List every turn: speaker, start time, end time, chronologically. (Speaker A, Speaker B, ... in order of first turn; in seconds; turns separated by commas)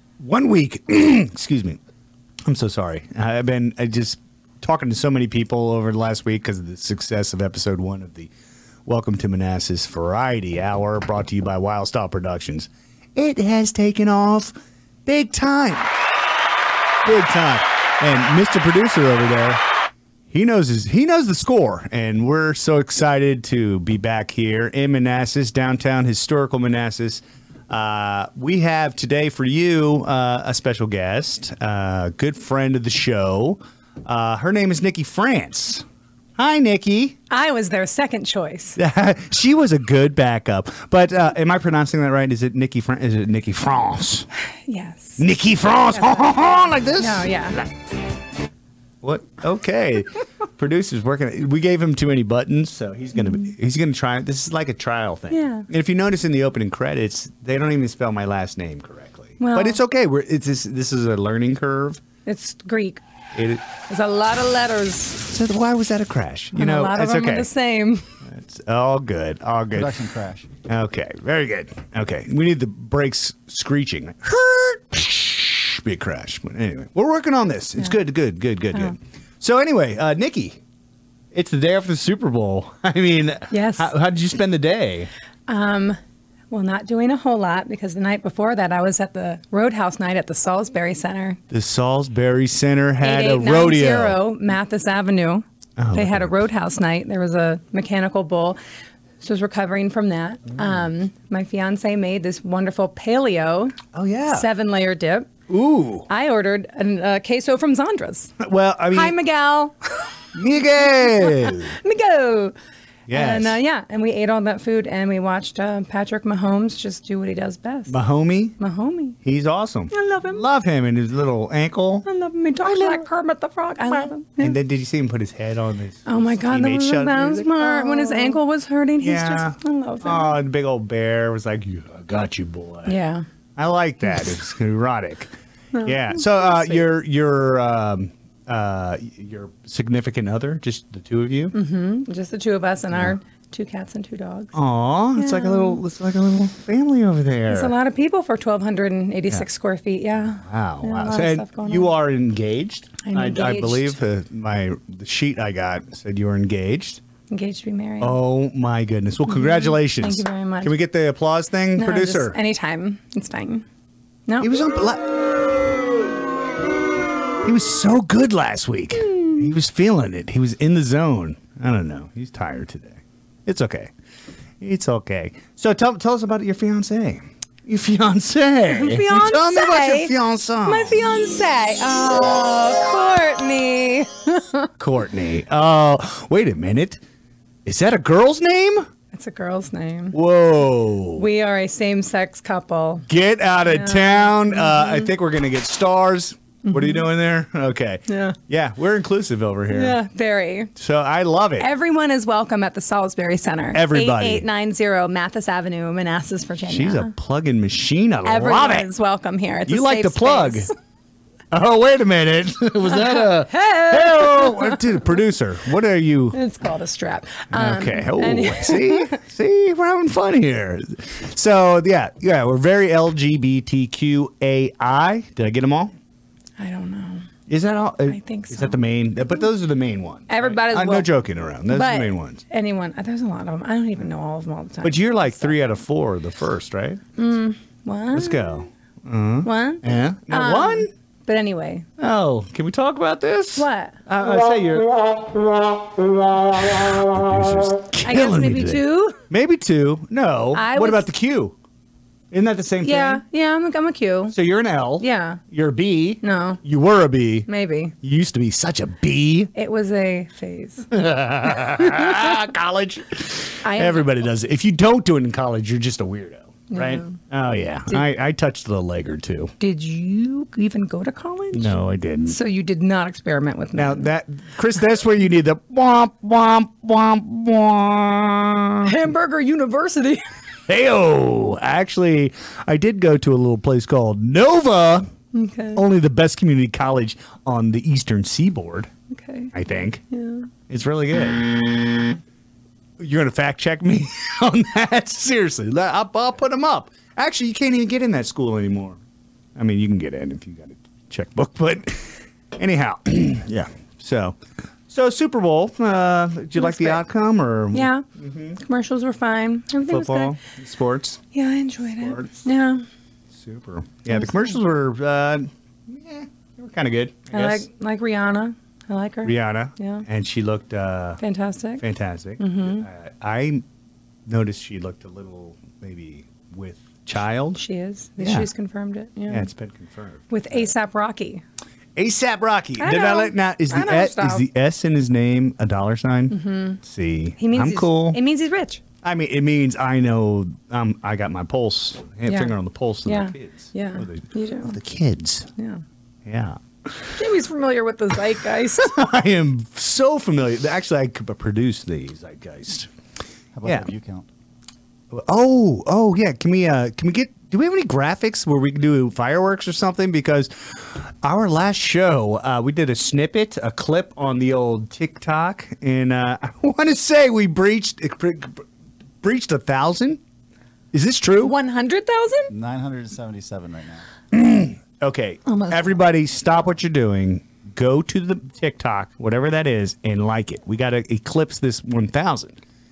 Speaker A: 0.2-1.8, Speaker A: 2.4-8.3, Speaker A: 8.8-14.5, Speaker A: 15.1-15.9, Speaker A: 17.0-19.6, Speaker A: 20.3-35.8, Speaker A: 36.4-37.2, Speaker B: 37.3-38.8, Speaker A: 38.8-44.3, Speaker B: 44.6-45.2, Speaker A: 45.2-47.7, Speaker B: 46.0-47.6, Speaker A: 49.0-62.0, Speaker B: 55.3-55.6, Speaker B: 59.4-59.8, Speaker B: 62.2-63.0, Speaker A: 63.3-63.6, Speaker B: 63.9-65.2, Speaker A: 65.2-67.5, Speaker B: 66.5-68.1, Speaker A: 68.2-70.0, Speaker C: 69.7-70.5, Speaker A: 70.7-80.6, Speaker A: 81.3-85.1, Speaker B: 83.5-83.9, Speaker B: 85.5-86.0, Speaker B: 86.5-91.4, Speaker A: 91.5-94.2, Speaker B: 93.0-98.6, Speaker A: 95.8-96.4, Speaker B: 99.2-105.3, Speaker A: 103.9-104.5, Speaker A: 105.5-106.1, Speaker B: 106.1-108.3, Speaker A: 108.4-109.2, Speaker B: 108.9-109.7, Speaker A: 110.3-111.8, Speaker B: 110.9-112.5, Speaker A: 113.1-113.6, Speaker B: 113.1-118.0, Speaker A: 117.9-118.6, Speaker B: 118.6-119.2, Speaker A: 119.2-122.0, Speaker B: 119.9-120.4, Speaker B: 122.0-124.5, Speaker A: 122.6-123.1, Speaker A: 124.4-128.4, Speaker B: 126.0-130.4, Speaker A: 129.0-132.9, Speaker B: 132.9-133.2, Speaker A: 133.6-141.5, Speaker B: 135.7-136.8, Speaker B: 141.5-144.5, Speaker A: 144.5-147.7, Speaker B: 145.1-145.8, Speaker B: 147.5-151.9, Speaker A: 150.2-157.0, Speaker B: 153.0-153.9, Speaker B: 157.3-158.2, Speaker A: 158.0-162.4, Speaker B: 159.2-160.7, Speaker B: 161.8-163.6, Speaker A: 164.4-165.1, Speaker A: 167.4-173.9, Speaker B: 169.1-169.4, Speaker A: 174.6-181.0, Speaker B: 178.7-180.1, Speaker B: 180.6-184.7, Speaker A: 184.8-187.0, Speaker A: 187.6-188.8, Speaker B: 189.1-190.2, Speaker A: 190.1-191.3, Speaker B: 191.2-193.1, Speaker A: 193.1-200.0, Speaker B: 193.6-195.1, Speaker B: 196.6-197.0, Speaker B: 198.1-198.4, Speaker B: 199.7-200.7, Speaker A: 200.8-201.7, Speaker B: 201.6-207.1, Speaker A: 203.7-204.4, Speaker A: 206.6-208.9, Speaker B: 208.2-210.7, Speaker A: 209.7-210.7, Speaker A: 211.5-216.4, Speaker B: 212.8-215.0, Speaker B: 216.3-219.2, Speaker A: 217.5-225.9, Speaker B: 226.6-227.3, Speaker A: 227.5-232.4, Speaker B: 228.1-228.8, Speaker B: 230.3-231.1, Speaker B: 231.7-235.6, Speaker A: 234.8-237.0, Speaker B: 237.2-238.6, Speaker A: 238.1-240.9, Speaker B: 239.4-241.8, Speaker A: 242.0-244.9, Speaker B: 243.6-244.0, Speaker A: 246.3-251.5, Speaker B: 248.0-249.2, Speaker B: 250.5-251.1, Speaker A: 252.3-253.2, Speaker B: 252.8-254.3, Speaker A: 254.3-257.5, Speaker B: 255.0-255.4, Speaker B: 256.2-256.6, Speaker B: 257.5-257.9, Speaker A: 258.0-259.5, Speaker B: 259.5-260.9, Speaker A: 260.9-269.5, Speaker B: 263.6-264.1, Speaker B: 266.7-267.1, Speaker B: 269.6-271.7, Speaker A: 271.5-272.4, Speaker B: 272.2-274.1, Speaker A: 273.7-278.9, Speaker B: 278.8-280.2, Speaker A: 280.7-285.1, Speaker B: 285.3-285.8, Speaker A: 285.8-288.9, Speaker B: 289.1-289.5, Speaker A: 289.5-290.0, Speaker B: 290.1-290.5, Speaker A: 290.7-291.8, Speaker A: 293.0-299.0, Speaker A: 299.6-304.4, Speaker A: 304.9-308.6, Speaker B: 306.6-307.0, Speaker B: 307.7-308.0, Speaker B: 308.6-310.3, Speaker A: 309.9-311.2, Speaker B: 311.3-312.8, Speaker A: 312.0-312.4, Speaker A: 313.3-317.6, Speaker B: 314.1-314.6, Speaker B: 317.3-320.0, Speaker A: 319.2-321.2, Speaker B: 321.2-321.8, Speaker A: 321.8-323.6, Speaker B: 322.4-322.9, Speaker A: 324.3-327.6, Speaker B: 327.5-329.5, Speaker A: 328.2-328.5, Speaker A: 329.3-330.7, Speaker B: 330.3-331.4, Speaker A: 331.9-338.2, Speaker B: 332.8-334.4, Speaker B: 336.3-336.8, Speaker B: 337.4-338.8, Speaker A: 339.0-345.5, Speaker B: 342.2-342.5, Speaker B: 343.1-344.8, Speaker B: 345.6-345.8, Speaker A: 346.2-347.1, Speaker B: 347.2-348.9, Speaker A: 348.8-352.9, Speaker C: 353.5-354.3, Speaker A: 353.6-353.9, Speaker A: 355.1-368.6, Speaker A: 369.2-370.2, Speaker A: 370.9-371.5, Speaker B: 371.4-372.5, Speaker C: 372.5-374.1, Speaker A: 374.3-382.6, Speaker B: 375.4-375.9